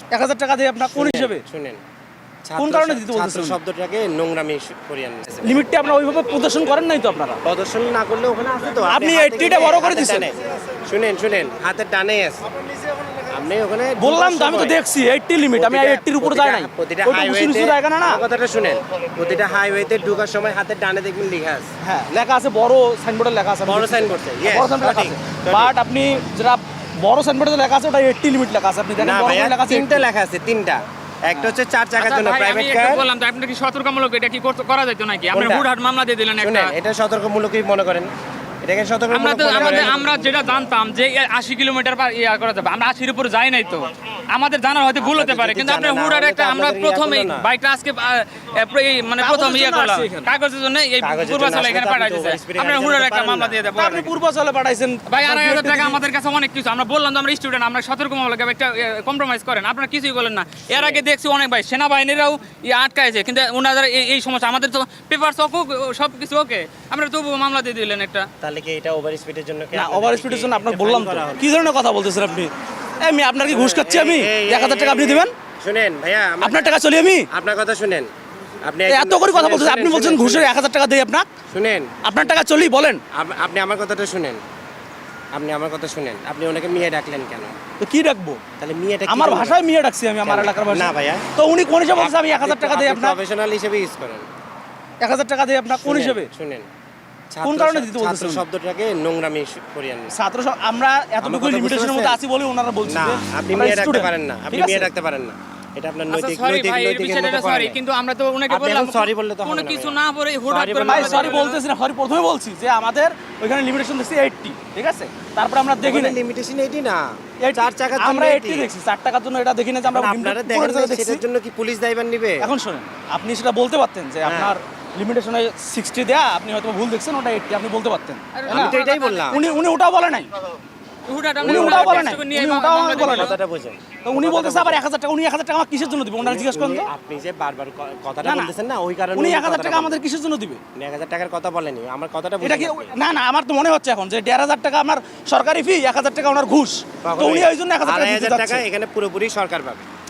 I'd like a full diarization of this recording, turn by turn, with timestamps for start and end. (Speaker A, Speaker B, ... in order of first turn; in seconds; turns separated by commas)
Speaker A: 0.1-1.4, Speaker B: 0.8-1.8, Speaker B: 2.4-5.6, Speaker A: 2.6-3.6, Speaker A: 5.4-7.4, Speaker B: 7.4-14.8, Speaker A: 8.9-10.3, Speaker A: 14.0-18.2, Speaker B: 15.5-21.7, Speaker A: 21.8-30.0, Speaker B: 23.7-25.7, Speaker B: 29.0-33.1, Speaker C: 32.0-36.7, Speaker B: 35.3-35.7, Speaker B: 36.4-38.1, Speaker B: 38.6-40.6, Speaker C: 39.1-54.1, Speaker B: 45.0-47.5, Speaker A: 49.2-50.3, Speaker B: 51.0-53.6, Speaker A: 53.8-56.0, Speaker C: 55.1-68.3, Speaker B: 60.7-61.0, Speaker B: 68.4-71.5, Speaker A: 69.7-75.3, Speaker B: 73.5-76.7, Speaker A: 76.4-77.3, Speaker B: 77.3-78.1, Speaker B: 78.6-80.5, Speaker A: 78.9-81.3, Speaker B: 81.5-82.0, Speaker A: 82.0-83.0, Speaker B: 83.1-84.4, Speaker B: 85.3-87.6, Speaker A: 87.8-88.4, Speaker B: 88.6-89.6, Speaker A: 89.1-93.2, Speaker B: 90.2-91.3, Speaker B: 91.9-94.3, Speaker A: 95.0-96.3, Speaker B: 95.7-96.7, Speaker B: 97.3-100.1, Speaker A: 97.4-98.5, Speaker A: 100.1-104.9, Speaker B: 101.2-102.2, Speaker B: 102.9-107.8, Speaker C: 106.1-111.6, Speaker B: 108.5-110.0, Speaker B: 110.5-111.4, Speaker A: 110.8-116.2, Speaker B: 115.8-118.7, Speaker A: 117.4-121.2, Speaker B: 119.9-122.5, Speaker A: 122.4-128.8, Speaker B: 124.2-124.5, Speaker C: 128.3-129.4, Speaker B: 128.5-129.4, Speaker A: 129.3-130.3, Speaker C: 131.1-133.4, Speaker B: 131.4-132.2, Speaker A: 131.4-133.3, Speaker B: 132.9-134.8, Speaker A: 134.0-136.9, Speaker B: 136.2-140.0, Speaker A: 138.2-138.5, Speaker A: 139.2-140.6, Speaker B: 140.8-143.0, Speaker A: 142.4-148.6, Speaker B: 147.0-149.8